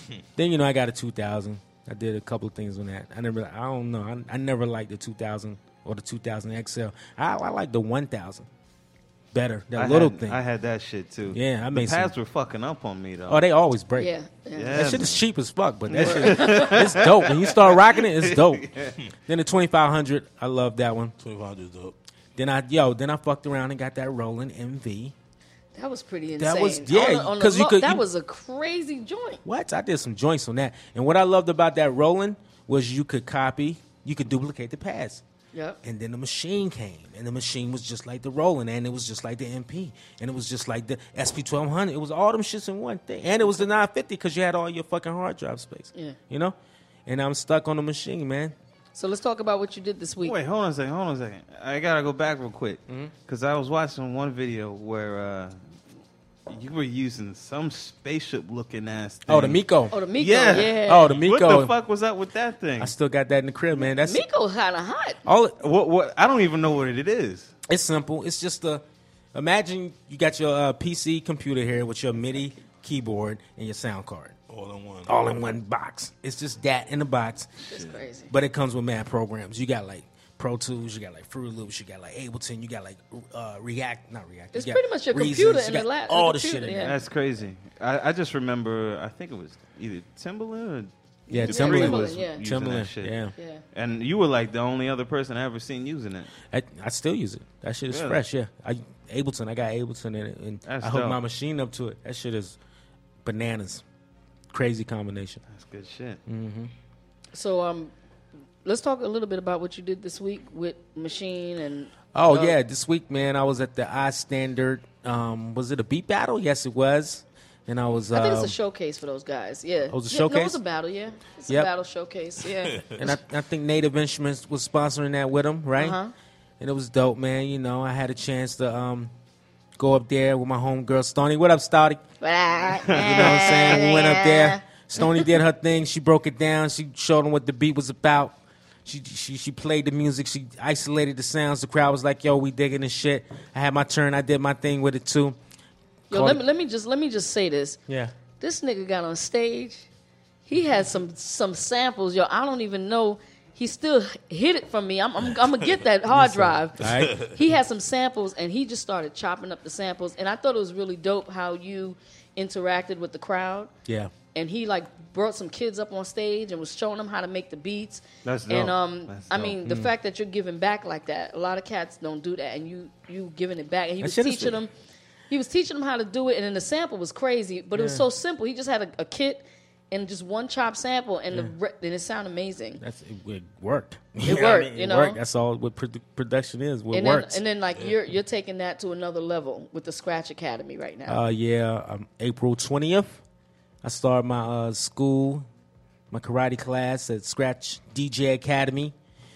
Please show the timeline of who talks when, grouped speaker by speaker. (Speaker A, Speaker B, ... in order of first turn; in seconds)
Speaker A: 0.4-8.5, 9.3-10.4, 11.3-12.1, 13.3-14.1, 14.7-18.7, 19.3-21.1, 22.4-25.1, 26.4-28.0, 29.4-35.2, 35.8-46.5, 47.1-48.5, 52.9-53.1, 59.3-60.0, 60.7-61.7, 62.8-64.2, 65.3-65.6, 67.7-68.8, 69.3-74.3, 75.1-77.5, 78.3-87.0, 91.3-93.3, 96.5-102.6, 103.2-103.8, 104.5-105.4, 106.3-106.7, 112.1-118.5, 119.9-120.6, 123.0-126.0, 126.6-129.1, 129.8-132.0, 133.0-145.4, 146.1-146.4, 147.9-148.1, 156.1-157.2, 163.9-164.1, 169.7-169.9, 174.0-174.6, 177.7-178.1, 182.8-187.4, 191.1-193.2, 193.8-195.5, 196.1-198.9
Speaker B: 9.8-13.4, 14.6-15.3, 15.9-18.9, 50.2-55.6, 56.5-59.6, 60.1-62.9, 65.6-67.5, 86.8-90.9, 91.5-93.2, 93.7-96.3, 97.9-98.2, 100.7-101.2, 105.5-106.2, 132.9-133.7, 168.2-169.6
Speaker C: 14.0-14.9, 16.0-16.9, 25.8-29.4, 35.5-35.8, 49.0-50.4, 59.9-61.1, 63.7-65.2, 77.6-78.3, 84.5-87.0, 91.3-92.4, 93.4-93.6, 107.3-107.9, 108.7-112.6, 118.1-122.8, 125.8-126.1, 132.2-135.3, 146.1-147.8, 148.4-149.9, 150.5-163.7, 164.3-174.7, 175.3-182.8, 184.2-185.2, 186.9-191.2
Speaker D: 21.2-21.9, 74.5-75.1, 156.8-157.4